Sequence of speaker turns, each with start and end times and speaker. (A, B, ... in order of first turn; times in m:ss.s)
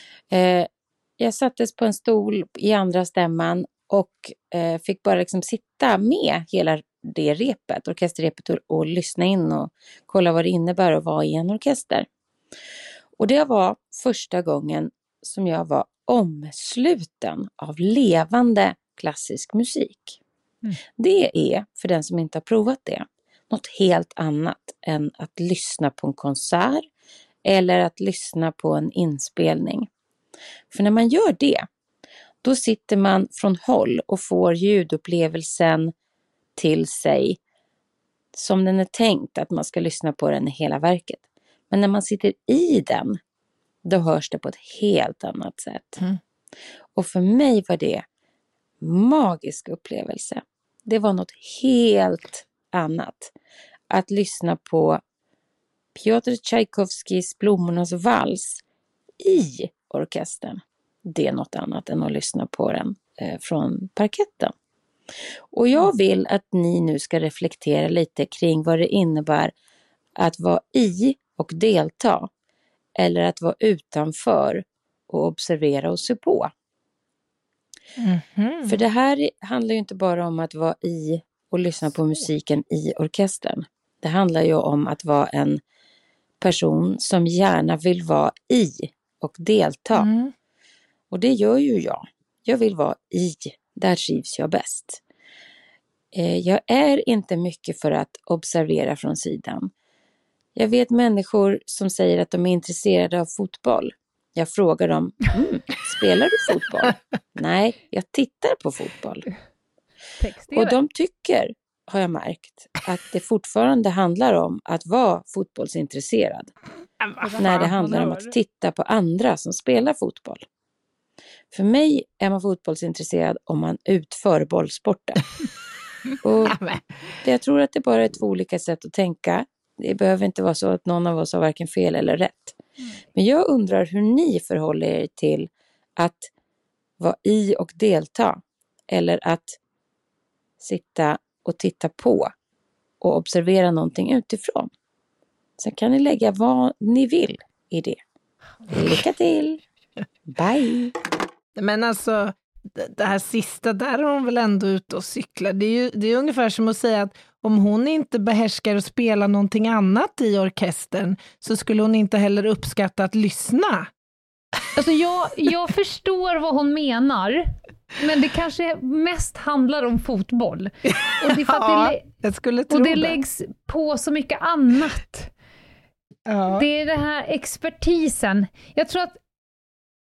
0:00.3-0:12.1 A
0:13.2-0:20.2 A
0:21.0-0:26.9 A
0:27.4-0:29.9 A
0:30.7-0:31.7 A
0:32.4-0:35.9 A
0:36.6-0:37.4 A
0:38.3-0:43.2 A
0:43.8-0:46.0 A
0:47.0-0:48.0 A
0:48.8-0:53.3 A
0:53.9-0:55.0 A
0:56.0-0:58.6 A
0:59.2-1:04.5 A
1:05.5-1:09.5 A
1:10.2-1:12.3 A
1:13.0-1:16.5 A
1:18.0-1:18.8 B
1:18.6-1:25.6 A
1:26.4-1:30.1 A
1:29.9-1:30.3 B
1:31.1-1:35.0 A
1:36.1-1:39.7 A
1:40.6-1:49.3 A
1:50.2-1:50.8 C
1:50.5-1:56.5 A
1:57.0-1:57.7 B
1:57.2-1:58.3 C
1:57.4-2:00.4 A
2:01.5-2:05.3 A
2:06.2-2:06.6 A
2:06.5-2:06.8 B
2:07.2-2:12.6 A
2:13.2-2:16.3 A
2:17.0-2:19.6 A
2:20.6-2:22.3 A
2:23.0-2:24.7 A
2:25.6-2:28.0 A
2:28.7-2:29.6 A
2:30.3-2:31.0 A
2:31.6-2:43.9 B
2:44.8-2:52.0 C
2:50.9-2:53.2 B
2:52.7-2:55.3 C
2:56.3-2:56.7 B
2:56.5-2:59.2 C